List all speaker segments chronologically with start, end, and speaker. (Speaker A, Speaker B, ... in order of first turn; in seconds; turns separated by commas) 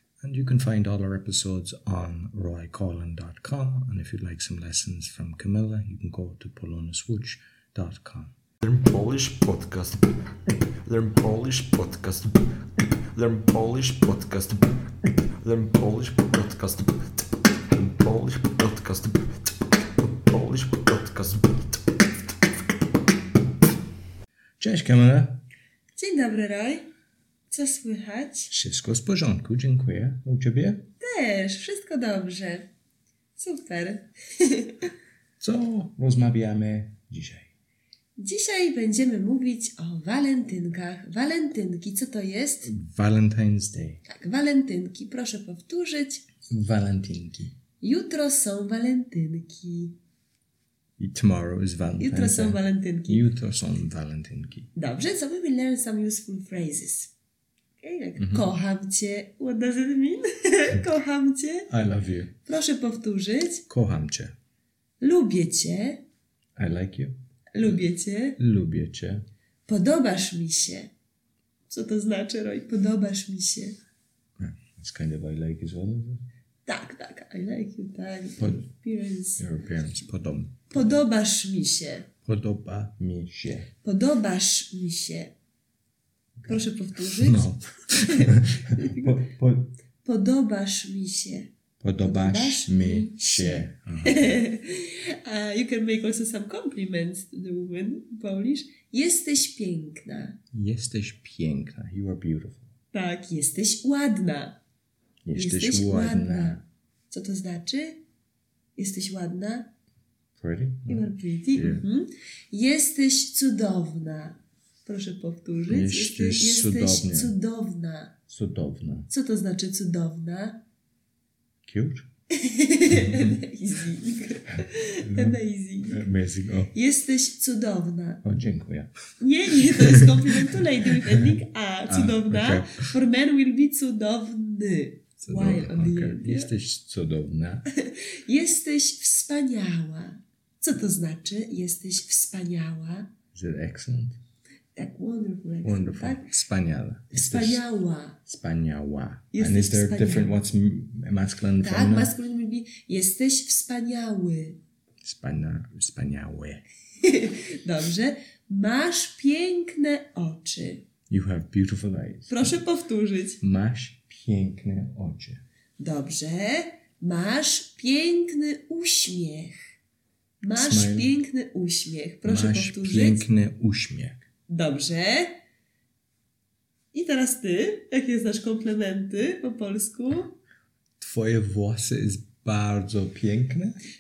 Speaker A: 0.2-8.4, Speaker B: 8.6-10.1, Speaker B: 10.8-12.6, Speaker B: 13.1-14.7, Speaker B: 15.4-17.1, Speaker B: 17.7-19.4, Speaker B: 20.2-21.6, Speaker A: 24.6-25.4, Speaker C: 26.0-26.9, Speaker C: 27.5-28.5, Speaker A: 28.5-30.9, Speaker C: 31.0-32.7, Speaker C: 33.4-34.9, Speaker A: 35.4-37.5, Speaker C: 38.2-42.7, Speaker A: 42.6-44.0, Speaker C: 44.1-46.3, Speaker A: 46.5-47.6, Speaker C: 47.8-50.0, Speaker A: 51.0-54.7, Speaker C: 52.0-53.2, Speaker C: 54.8-57.1, Speaker C: 57.8-61.7, Speaker A: 58.2-58.5, Speaker A: 61.7-62.4, Speaker C: 62.5-63.6, Speaker A: 63.7-64.3, Speaker C: 65.0-66.0, Speaker A: 66.6-67.8, Speaker C: 67.5-68.4, Speaker A: 68.4-69.2, Speaker C: 69.7-70.9, Speaker C: 71.7-73.8, Speaker A: 74.4-76.2, Speaker C: 76.7-79.4, Speaker A: 78.4-78.6, Speaker A: 79.4-80.7, Speaker C: 80.7-82.1, Speaker A: 82.2-83.7, Speaker C: 83.8-85.3, Speaker C: 86.5-87.5, Speaker A: 87.1-89.7, Speaker C: 88.1-89.2, Speaker C: 90.0-91.5, Speaker A: 91.8-94.3, Speaker C: 92.0-100.4, Speaker A: 100.5-102.7, Speaker C: 102.9-104.6, Speaker A: 105.2-106.6, Speaker C: 105.3-106.6, Speaker C: 107.1-108.0, Speaker C: 108.8-109.7, Speaker A: 110.4-111.9, Speaker C: 110.9-118.2, Speaker A: 115.7-117.3, Speaker A: 118.3-119.1, Speaker C: 119.1-120.6, Speaker A: 121.7-122.1, Speaker C: 122.3-126.0, Speaker A: 122.9-123.4, Speaker A: 125.1-126.8, Speaker C: 126.7-128.2, Speaker A: 128.2-128.9, Speaker C: 129.2-136.5, Speaker A: 129.7-130.1, Speaker A: 131.9-132.9, Speaker A: 135.2-137.7, Speaker C: 137.8-143.1, Speaker A: 143.3-144.2, Speaker C: 144.8-146.3, Speaker A: 145.6-147.6, Speaker C: 147.1-148.2, Speaker A: 148.2-152.1, Speaker C: 149.3-150.3, Speaker C: 151.6-154.6, Speaker A: 155.0-156.7, Speaker C: 157.0-160.8, Speaker A: 161.1-162.6, Speaker C: 162.3-163.4, Speaker A: 163.4-165.4, Speaker C: 165.8-169.7, Speaker C: 170.4-173.2, Speaker A: 170.6-171.1, Speaker A: 172.2-174.2, Speaker C: 174.5-175.4, Speaker C: 176.9-180.3, Speaker A: 181.0-183.8